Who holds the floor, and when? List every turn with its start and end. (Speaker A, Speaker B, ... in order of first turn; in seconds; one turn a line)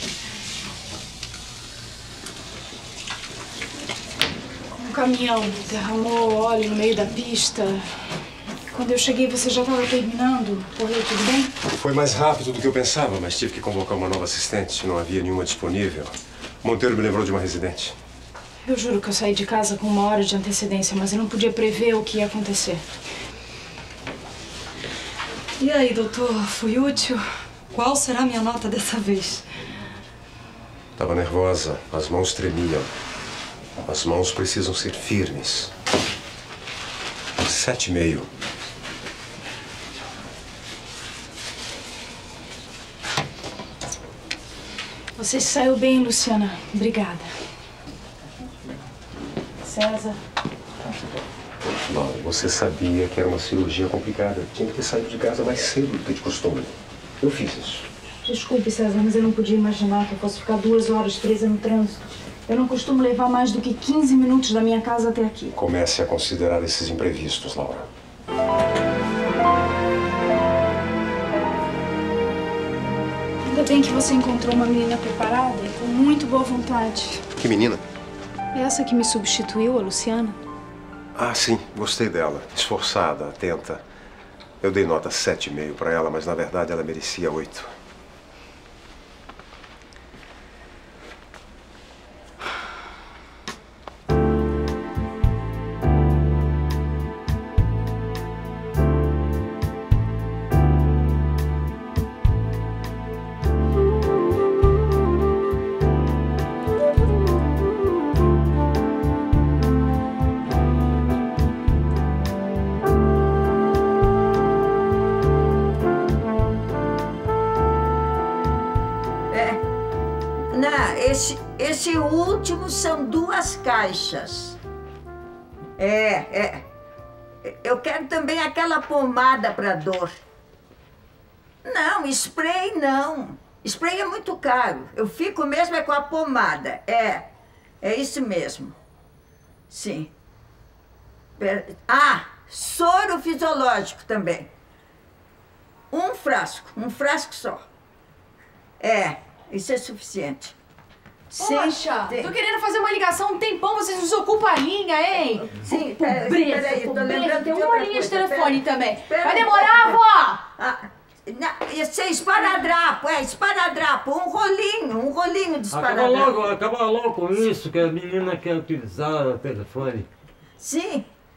Speaker A: 4.7-7.9
Speaker A: 8.7-11.5
Speaker B: 11.7-16.1
Speaker B: 16.6-18.0
Speaker A: 18.6-22.8
Speaker C: 25.6-27.1
Speaker A: 25.8-27.1
Speaker C: 27.7-29.4
Speaker A: 27.9-29.2
Speaker B: 31.0-32.9
Speaker B: 33.9-35.7
Speaker B: 37.4-38.3
Speaker A: 45.2-47.3
Speaker A: 49.6-50.2
Speaker B: 51.6-57.9
Speaker A: 58.2-65.5
Speaker B: 65.5-67.8
Speaker A: 73.5-77.2
Speaker B: 77.4-77.8
Speaker A: 78.5-80.4
Speaker B: 81.2-83.8
Speaker B: 84.6-87.7
Speaker D: 119.3-119.6
Speaker D: 120.5-124.6
Speaker D: 125.8-126.6
Speaker D: 127.4-130.2
Speaker D: 131.6-137.3
Speaker D: 137.8-138.7
Speaker D: 139.7-140.1
Speaker D: 141.4-144.5
Speaker D: 145.9-147.6
Speaker D: 148.8-150.5
Speaker D: 151.3-152.3
Speaker E: 151.4-155.3
Speaker A: 152.1-153.2
Speaker A: 153.8-155.7
Speaker D: 155.3-160.0
Speaker E: 156.0-160.4
Speaker D: 160.6-166.6
Speaker F: 165.7-170.1
Speaker D: 170.6-171.1